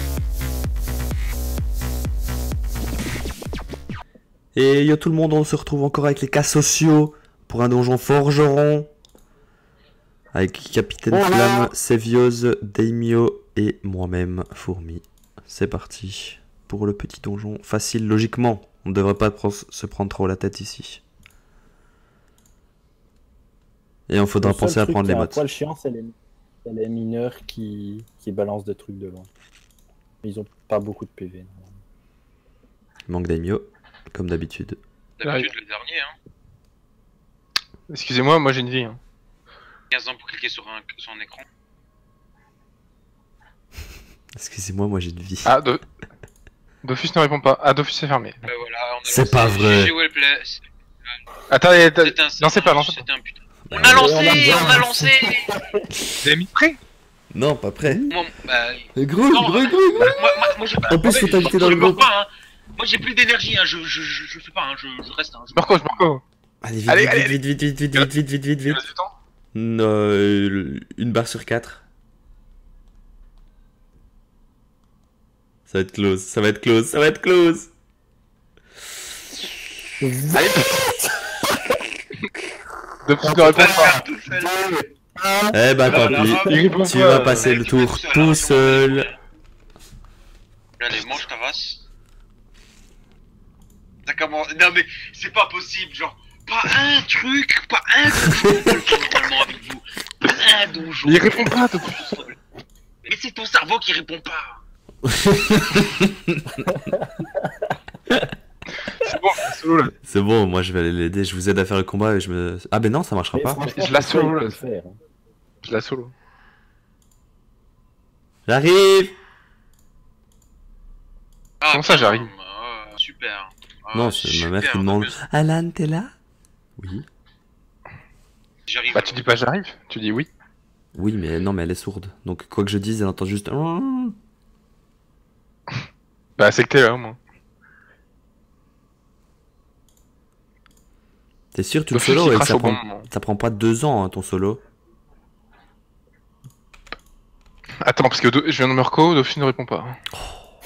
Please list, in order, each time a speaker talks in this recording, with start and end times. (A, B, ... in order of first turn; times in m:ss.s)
0:04.5-0:08.9 A
0:10.3-0:21.0 A
0:11.1-0:11.7 B
0:24.1-0:25.4 A
0:24.4-0:29.3 B
0:30.2-0:31.8 B
0:33.1-0:34.8 A
0:35.2-0:36.1 C
0:35.2-0:35.5 D
0:37.9-0:39.0 D
0:39.9-0:41.4 C
0:44.3-0:45.5 A
0:45.4-0:45.8 D
0:46.8-0:48.4 D
0:48.4-0:51.1 C
0:49.0-0:50.0 A
0:51.5-0:53.0 D
0:52.0-0:55.6 C
0:53.7-0:54.2 A
0:53.9-0:55.9 B
0:56.2-0:56.8 D
0:57.3-0:58.0 A
0:57.8-0:58.2 B
0:58.1-1:05.8 C
0:59.0-1:00.3 A
1:00.8-1:02.1 A
1:05.5-1:06.2 D
1:06.6-1:08.8 A
1:06.9-1:07.4 D
1:08.7-1:09.1 D
1:09.5-1:11.8 A
1:15.7-1:17.7 A
1:20.0-1:21.2 B
1:20.3-1:20.8 D
1:23.0-1:24.0 D
1:23.2-1:25.6 B
1:23.3-1:24.6 C
1:25.5-1:29.1 A
1:25.8-1:29.2 C
1:26.0-1:27.5 D
1:30.8-1:31.8 C
1:34.1-1:42.4 C
1:38.3-1:38.8 A
1:41.0-1:42.2 D
1:43.0-1:44.6 C
1:45.0-1:46.7 A
1:46.6-1:47.8 B
1:48.8-1:49.9 D
1:50.0-1:53.6 A
1:53.3-1:55.0 B
1:53.7-1:54.6 D
1:55.6-1:56.1 D
1:58.5-1:59.2 A
2:01.6-2:05.2 C
2:01.7-2:02.3 D
2:03.9-2:06.1 A
2:06.8-2:07.1 A
2:08.7-2:09.3 C
2:08.9-2:10.3 D
2:10.9-2:14.2 A
2:16.4-2:17.2 D
2:21.5-2:24.6 A
2:21.9-2:23.1 D
2:27.8-2:30.0 D
2:30.1-2:30.5 A